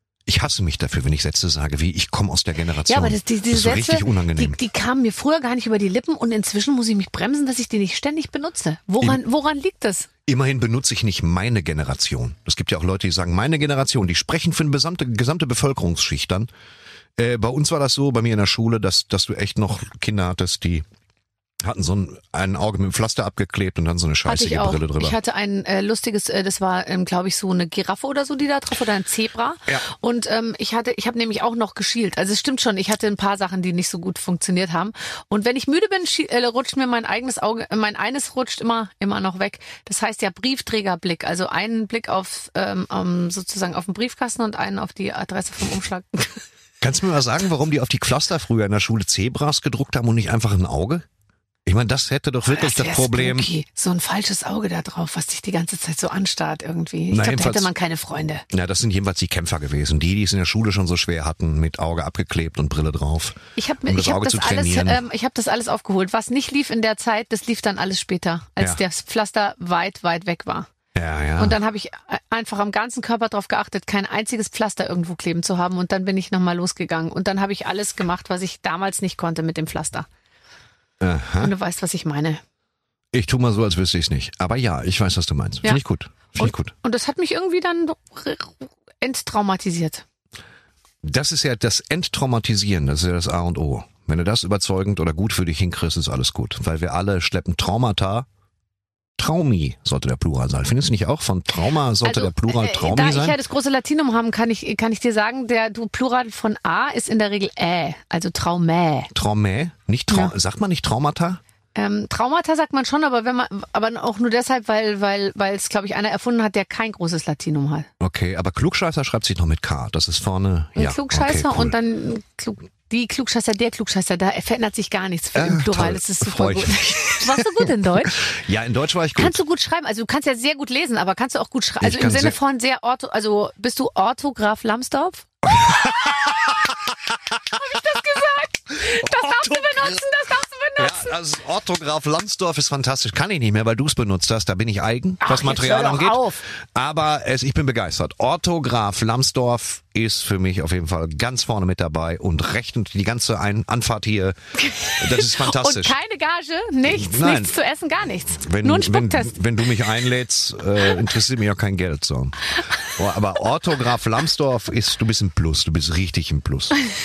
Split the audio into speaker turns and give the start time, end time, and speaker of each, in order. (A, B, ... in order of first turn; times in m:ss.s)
0:00.2-0:04.6 A
0:02.9-0:10.1 B
0:10.2-0:16.5 A
0:17.2-0:20.8 A
0:21.6-0:25.2 A
0:24.2-0:46.4 B
0:46.8-0:51.0 A
0:51.6-0:53.5 A
0:52.5-0:58.4 B
0:57.1-0:57.7 A
0:58.5-1:05.0 A
1:03.6-1:10.7 B
1:10.9-1:11.6 A
1:11.4-1:20.1 B
1:21.0-1:21.5 A
1:21.4-1:22.4 B
1:23.1-1:26.7 A
1:26.4-1:30.0 B
1:31.0-1:38.3 A
1:39.2-1:43.4 A
1:42.0-1:49.1 B
1:49.1-1:51.4 A
1:51.7-1:57.9 B
1:58.0-2:01.8 A
2:00.8-2:08.2 B
2:05.3-2:09.4 A
2:09.2-2:16.3 B
2:11.8-2:12.4 A
2:15.4-2:17.6 A
2:17.5-2:21.1 B
2:18.8-2:20.0 A
2:20.8-2:34.4 A
2:25.2-2:26.4 B
2:34.6-2:39.4 B
2:34.9-2:36.0 A
2:36.8-2:37.5 A
2:38.4-2:46.8 A